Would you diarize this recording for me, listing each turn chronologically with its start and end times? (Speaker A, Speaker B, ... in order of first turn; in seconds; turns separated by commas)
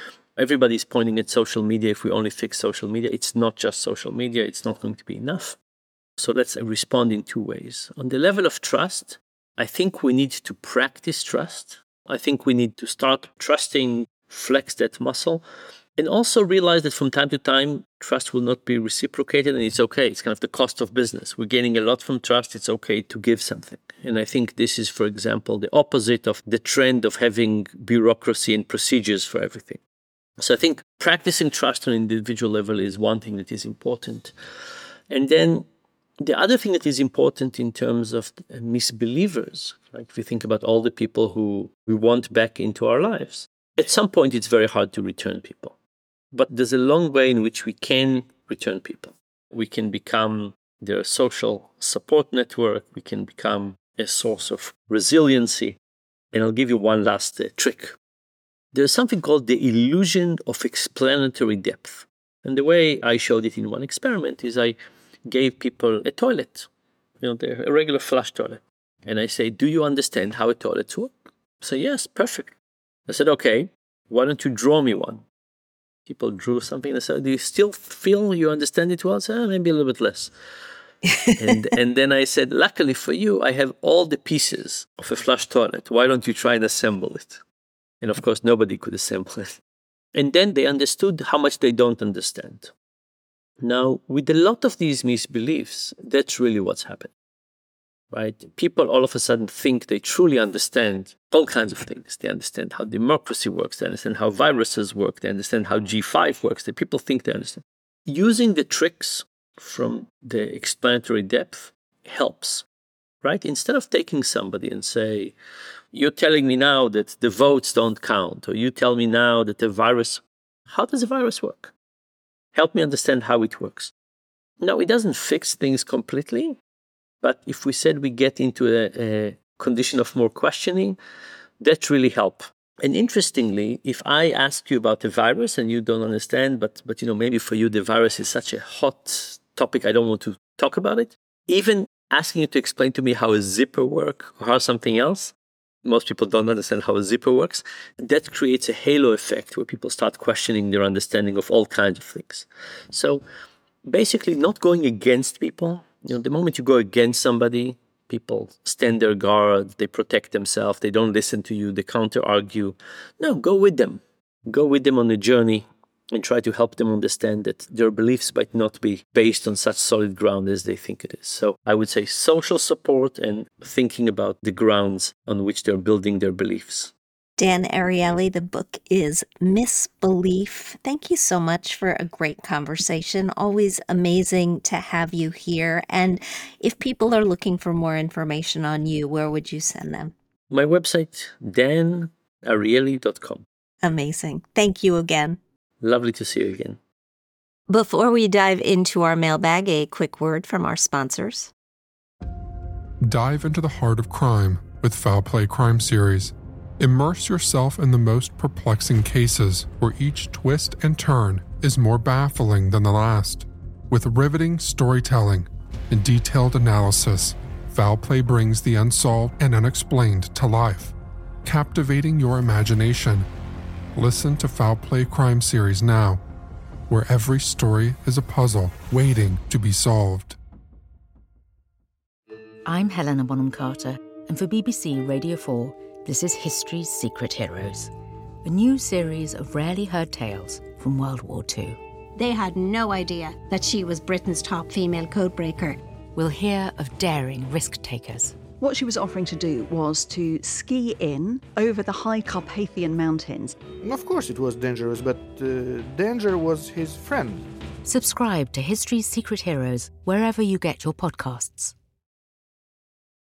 Speaker A: 0.3-5.6, Speaker A: 6.2-15.4, Speaker A: 16.0-29.8, Speaker A: 30.4-34.3, Speaker A: 35.1-35.7, Speaker A: 36.2-45.7, Speaker A: 46.3-55.8, Speaker A: 56.3-58.0, Speaker A: 58.7-64.8, Speaker A: 65.3-66.7, Speaker A: 67.2-72.5, Speaker A: 73.1-75.2, Speaker A: 76.0-80.3, Speaker A: 81.3-87.4, Speaker A: 88.0-89.6, Speaker A: 90.1-92.7, Speaker A: 93.6-97.1, Speaker A: 98.1-112.6, Speaker A: 113.2-115.3, Speaker A: 115.9-121.7, Speaker A: 122.5-123.9, Speaker A: 124.6-126.6, Speaker A: 127.2-131.0, Speaker A: 131.6-153.2, Speaker A: 153.8-176.9, Speaker B: 177.4-190.1, Speaker A: 190.5-193.4, Speaker B: 193.8-195.4, Speaker A: 195.8-196.8, Speaker B: 197.7-201.5, Speaker C: 203.0-220.9, Speaker C: 221.4-223.3, Speaker C: 223.9-226.2, Speaker C: 226.9-230.4, Speaker D: 232.6-237.9, Speaker D: 238.4-241.8, Speaker E: 242.2-245.8, Speaker D: 246.1-248.5, Speaker F: 248.6-253.6, Speaker G: 253.8-257.4, Speaker D: 257.8-261.7